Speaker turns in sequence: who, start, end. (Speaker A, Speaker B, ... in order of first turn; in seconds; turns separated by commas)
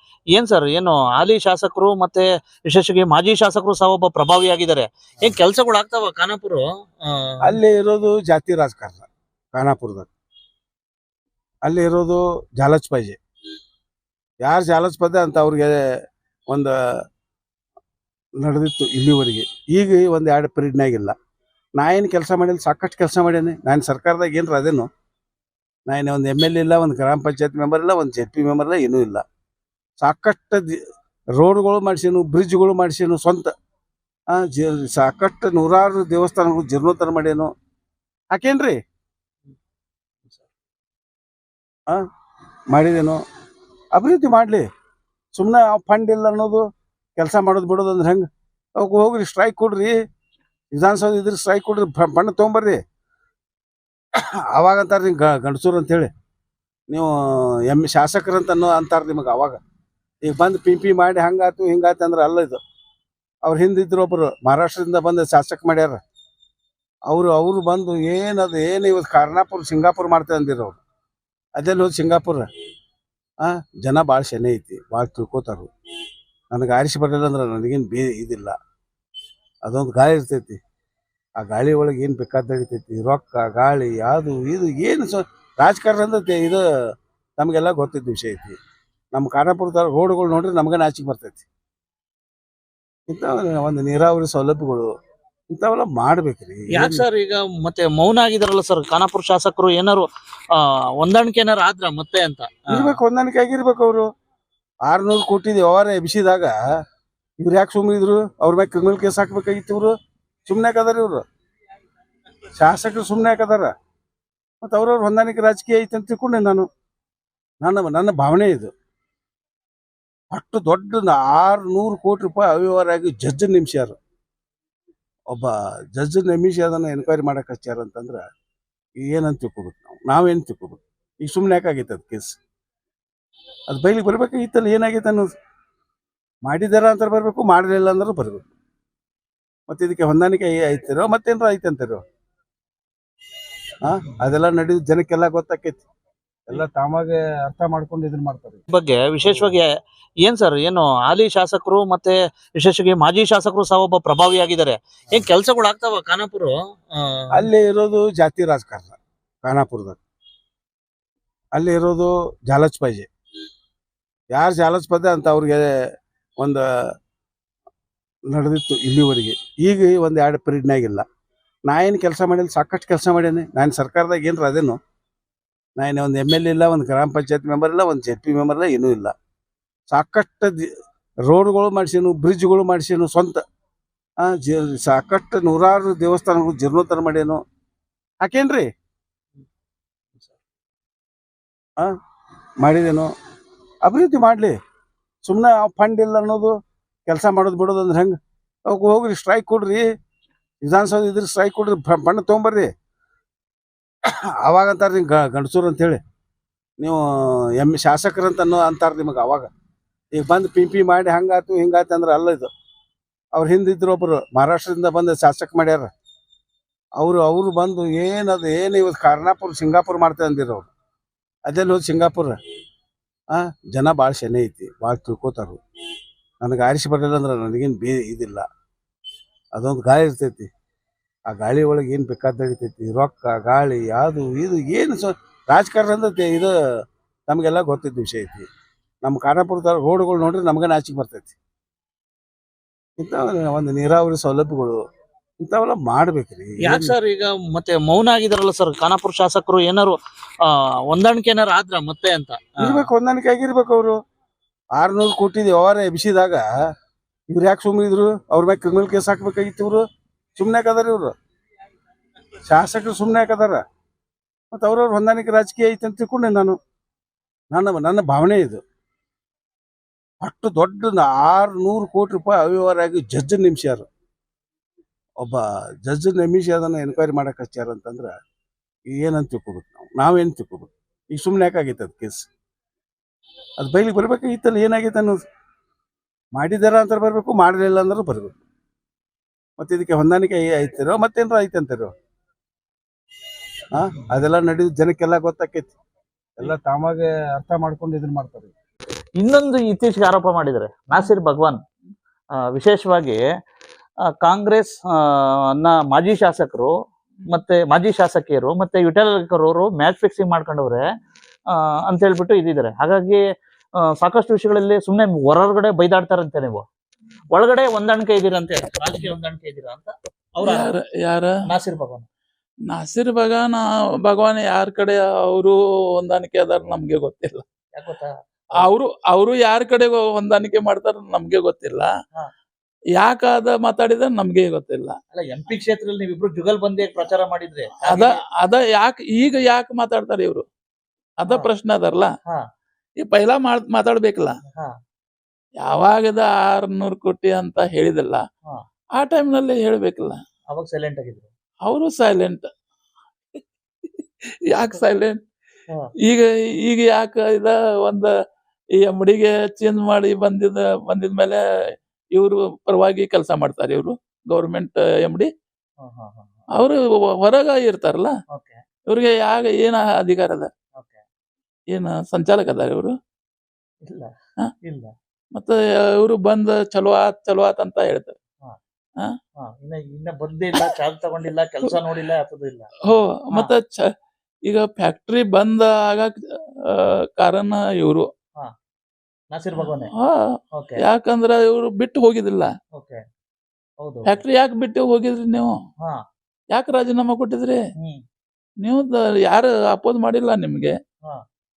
Speaker A: 0.3-7.5, Speaker B: 7.4-10.1, Speaker B: 11.7-13.2, Speaker B: 14.4-15.8, Speaker B: 18.4-21.1, Speaker B: 21.8-24.9, Speaker B: 25.9-29.2, Speaker B: 30.0-30.8, Speaker B: 31.4-33.5, Speaker B: 34.3-37.5, Speaker B: 38.3-38.8, Speaker B: 42.7-43.2, Speaker B: 43.9-44.7, Speaker B: 45.3-46.6, Speaker B: 47.2-48.2, Speaker B: 48.8-50.0, Speaker B: 50.7-52.8, Speaker B: 54.5-56.1, Speaker B: 56.9-59.6, Speaker B: 60.2-62.6, Speaker B: 63.4-66.0, Speaker B: 67.1-70.8, Speaker B: 71.6-72.5, Speaker B: 73.4-75.7, Speaker B: 76.5-78.6, Speaker B: 79.6-80.6, Speaker B: 81.4-86.6, Speaker B: 87.4-88.5, Speaker B: 89.1-91.4, Speaker B: 93.1-94.9, Speaker B: 95.5-97.1, Speaker A: 96.7-100.1, Speaker A: 100.6-103.0, Speaker B: 102.7-104.1, Speaker B: 104.8-106.5, Speaker B: 107.4-109.9, Speaker B: 110.5-111.2, Speaker B: 112.6-113.7, Speaker B: 114.6-116.7, Speaker B: 117.6-118.7, Speaker B: 120.3-124.0, Speaker B: 125.3-128.2, Speaker B: 129.0-132.3, Speaker B: 133.7-135.3, Speaker B: 136.4-138.4, Speaker B: 139.7-142.0, Speaker B: 143.8-145.8, Speaker B: 146.5-148.6, Speaker A: 148.7-149.7, Speaker B: 149.2-149.6, Speaker A: 150.2-157.5, Speaker B: 157.3-160.0, Speaker B: 161.5-163.1, Speaker B: 164.3-165.7, Speaker B: 166.4-166.9, Speaker B: 168.3-171.0, Speaker B: 171.7-174.8, Speaker B: 175.8-179.1, Speaker B: 179.9-180.7, Speaker B: 181.2-183.4, Speaker B: 184.2-187.4, Speaker B: 188.2-188.7, Speaker B: 192.6-193.1, Speaker B: 193.8-194.6, Speaker B: 195.2-196.5, Speaker B: 197.1-198.2, Speaker B: 198.7-199.8, Speaker B: 200.6-202.7, Speaker B: 204.1-206.0, Speaker B: 206.8-209.5, Speaker B: 210.1-212.5, Speaker B: 213.3-215.9, Speaker B: 217.0-220.7, Speaker B: 221.5-222.3, Speaker B: 223.3-225.6, Speaker B: 226.4-228.4, Speaker B: 229.5-230.5, Speaker B: 231.3-236.5, Speaker B: 237.3-238.4, Speaker B: 239.0-241.3, Speaker B: 243.0-244.8, Speaker B: 245.4-247.0, Speaker A: 246.6-252.9, Speaker B: 252.6-254.0, Speaker B: 254.8-256.4, Speaker B: 257.3-259.8, Speaker B: 260.4-261.1, Speaker B: 262.5-263.6, Speaker B: 264.5-266.5, Speaker B: 267.5-268.6, Speaker B: 270.2-273.9, Speaker B: 275.2-278.1, Speaker B: 278.9-282.2, Speaker B: 283.6-285.2, Speaker B: 286.4-288.3, Speaker B: 289.6-291.9, Speaker B: 293.7-295.7, Speaker B: 296.4-298.5, Speaker A: 299.2-301.6, Speaker A: 302.5-303.2, Speaker A: 304.2-304.8, Speaker A: 305.6-306.7, Speaker A: 307.3-310.8, Speaker A: 311.9-313.2, Speaker A: 314.0-316.6, Speaker A: 317.3-320.7, Speaker C: 320.4-321.5, Speaker A: 321.5-322.1, Speaker C: 322.7-327.4, Speaker A: 327.7-328.7, Speaker C: 328.6-331.9, Speaker C: 333.0-335.0, Speaker A: 335.1-338.2, Speaker C: 337.8-340.4, Speaker C: 341.2-342.1, Speaker C: 343.0-344.4, Speaker C: 345.6-348.2, Speaker C: 348.9-350.2, Speaker A: 350.5-351.3, Speaker C: 351.6-352.5, Speaker C: 353.4-355.2, Speaker C: 356.0-358.1, Speaker C: 358.8-361.4, Speaker C: 362.1-365.3, Speaker A: 365.8-366.5, Speaker C: 366.5-368.1, Speaker A: 368.3-368.6, Speaker C: 368.9-370.5, Speaker A: 370.8-371.0, Speaker C: 371.7-372.9, Speaker A: 373.9-374.1, Speaker A: 374.6-374.9, Speaker C: 375.4-378.1, Speaker A: 379.4-382.8, Speaker C: 382.8-383.9, Speaker C: 384.5-388.1, Speaker A: 389.3-389.9, Speaker C: 389.6-392.5, Speaker A: 390.6-390.8, Speaker A: 392.7-393.0, Speaker A: 393.8-394.2, Speaker C: 394.0-395.5, Speaker C: 396.5-397.6, Speaker C: 398.6-400.8